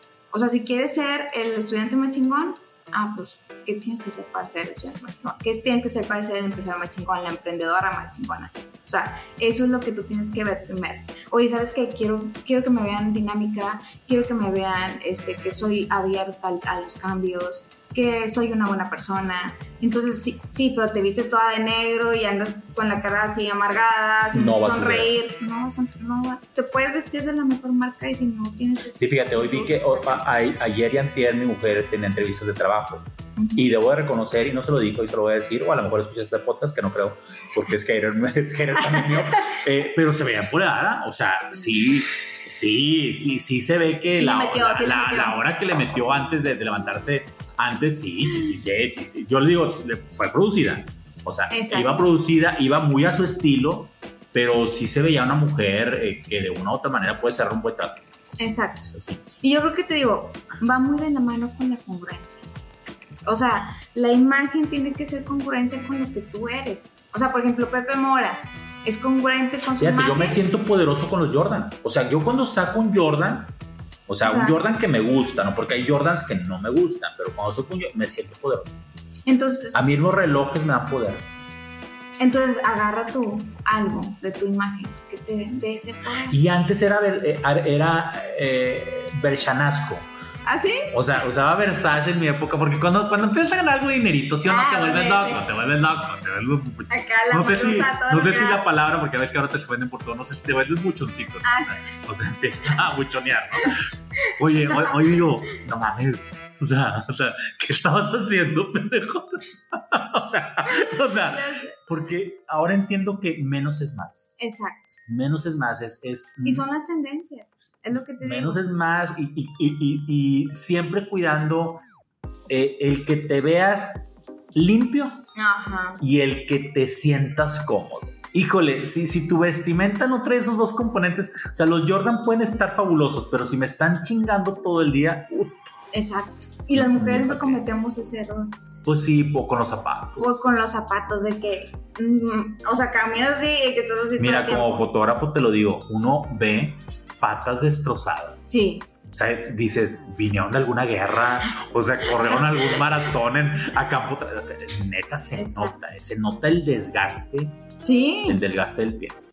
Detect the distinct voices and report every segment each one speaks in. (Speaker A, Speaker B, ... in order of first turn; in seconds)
Speaker A: 0.3-30.3, 33.4-33.6, 44.1-45.4, 51.5-52.1, 58.4-62.5, 63.2-70.4, 74.2-74.6, 79.2-79.8, 82.2-86.4, 90.5-90.9, 94.4-95.4, 96.9-98.6, 101.4-101.9, 104.7-105.0, 111.2-111.8, 114.4-115.0, 116.4-118.6, 125.3-126.0, 135.9-138.5, 140.2-144.8, 148.5-148.9, 155.3-155.8, 157.8-158.4
Speaker B: 24.3-25.1, 29.0-58.0, 58.9-59.2, 69.8-73.5, 74.1-78.7, 79.7-81.3, 86.3-90.1, 90.9-114.3, 115.1-116.7, 118.2-121.8, 122.5-125.2, 126.0-135.7, 136.7-137.6, 138.8-140.3, 144.2-148.4, 149.1-157.6, 158.3-159.2